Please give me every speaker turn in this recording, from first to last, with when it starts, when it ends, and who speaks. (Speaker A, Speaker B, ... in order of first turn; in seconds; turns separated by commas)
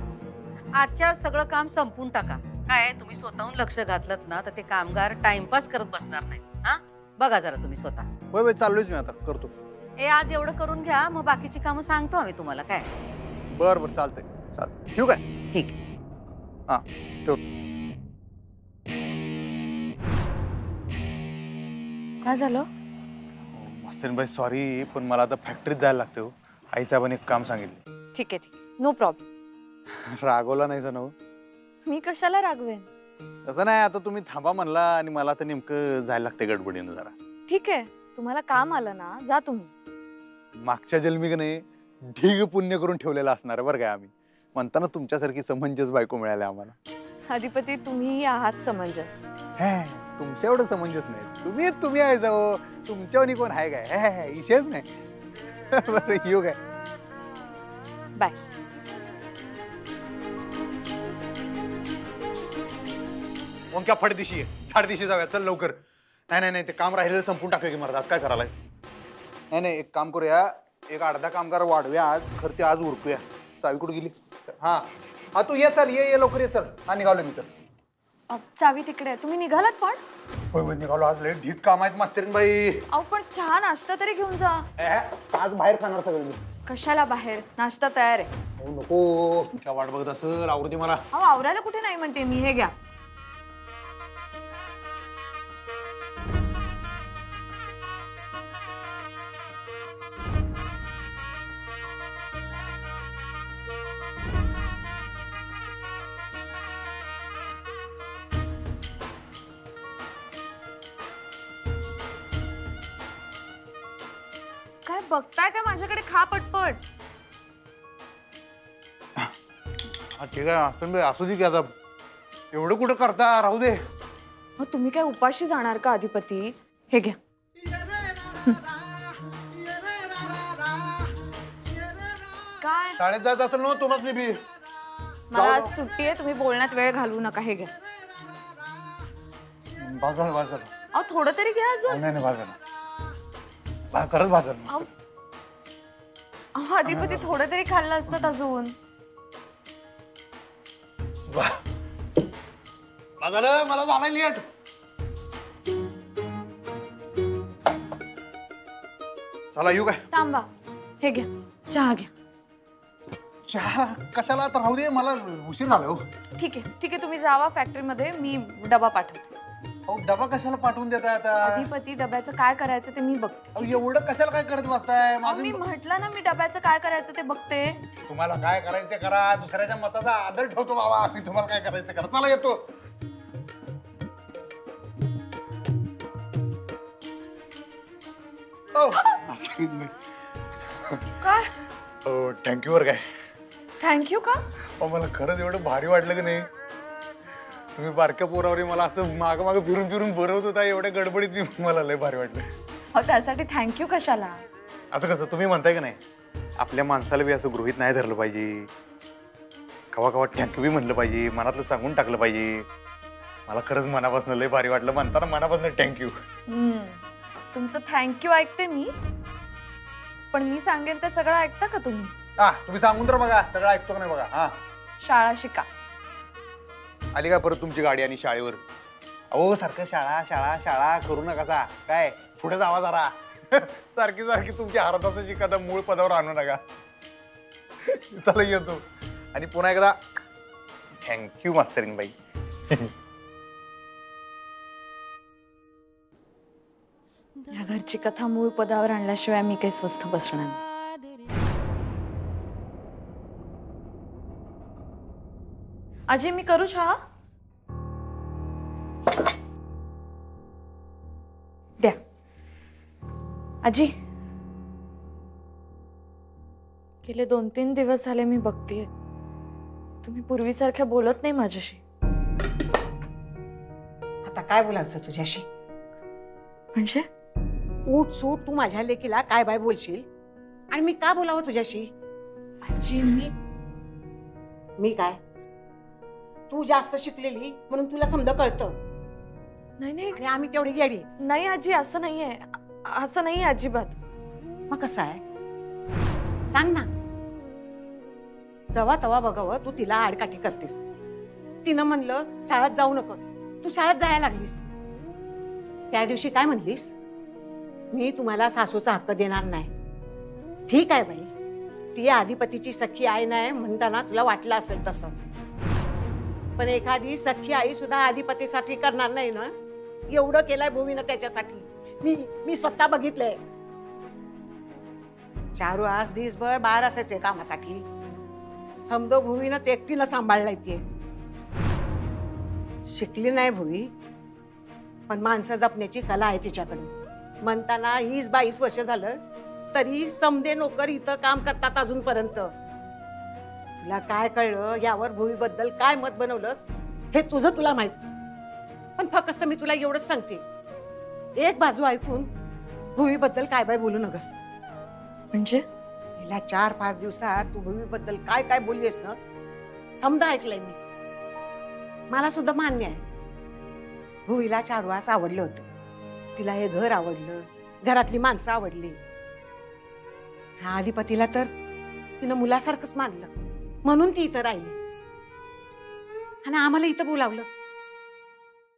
Speaker A: 0.8-8.1, Speaker B: 8.3-9.5, Speaker A: 10.0-12.9, Speaker B: 13.5-15.2, Speaker B: 16.7-17.4, Speaker C: 22.2-22.7, Speaker B: 23.5-27.8, Speaker C: 28.1-29.2, Speaker B: 30.1-31.1, Speaker C: 31.9-32.9, Speaker B: 33.5-37.1, Speaker C: 37.5-39.7, Speaker B: 40.6-46.8, Speaker C: 47.3-49.3, Speaker B: 49.6-54.9, Speaker B: 55.7-56.6, Speaker B: 63.7-65.8, Speaker B: 66.3-68.5, Speaker B: 69.5-77.5, Speaker C: 78.3-80.0, Speaker B: 80.5-82.8, Speaker C: 82.9-84.7, Speaker B: 84.8-86.4, Speaker C: 86.7-88.3, Speaker B: 88.6-91.0, Speaker C: 91.1-92.7, Speaker C: 114.8-116.8, Speaker B: 120.2-121.7, Speaker B: 122.5-123.8, Speaker C: 124.6-127.2, Speaker C: 132.6-133.0, Speaker B: 133.0-134.4, Speaker C: 135.3-137.7, Speaker B: 135.3-135.7, Speaker B: 139.8-140.7, Speaker C: 140.9-142.0, Speaker B: 141.9-142.6, Speaker B: 143.9-144.8, Speaker C: 146.6-148.7, Speaker B: 146.8-147.3, Speaker B: 151.3-151.6, Speaker B: 153.2-154.4, Speaker B: 159.5-160.0, Speaker C: 160.1-160.5, Speaker C: 161.0-162.1, Speaker B: 163.5-166.0, Speaker C: 166.4-169.3, Speaker B: 169.9-171.7, Speaker C: 171.4-173.8, Speaker B: 173.6-175.6, Speaker C: 175.2-177.8, Speaker B: 178.1-182.7, Speaker B: 188.7-189.9, Speaker C: 191.2-191.5, Speaker B: 192.1-193.0, Speaker C: 193.8-194.4, Speaker B: 194.8-196.5, Speaker B: 197.8-202.5, Speaker C: 202.9-204.4, Speaker B: 204.9-206.0, Speaker B: 206.6-208.7, Speaker B: 209.9-212.7, Speaker B: 213.5-216.1, Speaker C: 216.5-217.0, Speaker C: 217.5-218.9, Speaker C: 220.3-222.1, Speaker B: 222.4-224.6, Speaker C: 225.0-225.7, Speaker B: 227.1-228.6, Speaker B: 229.3-236.6, Speaker B: 237.8-238.8, Speaker B: 239.3-239.9, Speaker B: 241.0-242.1, Speaker C: 247.5-250.6, Speaker C: 256.1-257.0, Speaker C: 263.6-263.9, Speaker C: 267.0-268.9, Speaker C: 270.0-271.8, Speaker D: 274.2-275.4, Speaker C: 276.8-277.1, Speaker D: 277.9-280.0, Speaker D: 280.7-281.9, Speaker C: 282.6-283.3, Speaker D: 284.8-285.2, Speaker D: 286.5-288.8, Speaker C: 289.8-290.2, Speaker D: 290.1-291.1, Speaker C: 291.2-293.9, Speaker D: 294.7-295.2, Speaker D: 296.5-296.9, Speaker D: 298.7-300.8, Speaker D: 301.6-304.6, Speaker D: 305.9-306.9, Speaker D: 307.9-309.7, Speaker D: 310.7-311.3, Speaker D: 311.9-315.1, Speaker D: 316.6-319.5, Speaker D: 320.1-323.4, Speaker D: 325.6-327.8, Speaker D: 328.8-330.8, Speaker D: 332.9-333.9, Speaker D: 335.1-336.9, Speaker D: 337.4-339.2, Speaker D: 339.7-342.5, Speaker D: 343.8-348.0, Speaker D: 349.0-350.4, Speaker D: 351.4-352.3, Speaker D: 353.0-354.3, Speaker C: 355.3-355.6, Speaker D: 356.2-359.2, Speaker D: 360.0-360.8, Speaker D: 362.1-363.0, Speaker D: 364.3-365.6, Speaker D: 366.4-369.0, Speaker D: 370.6-371.5, Speaker D: 372.2-373.3, Speaker D: 373.8-374.8, Speaker D: 376.4-377.5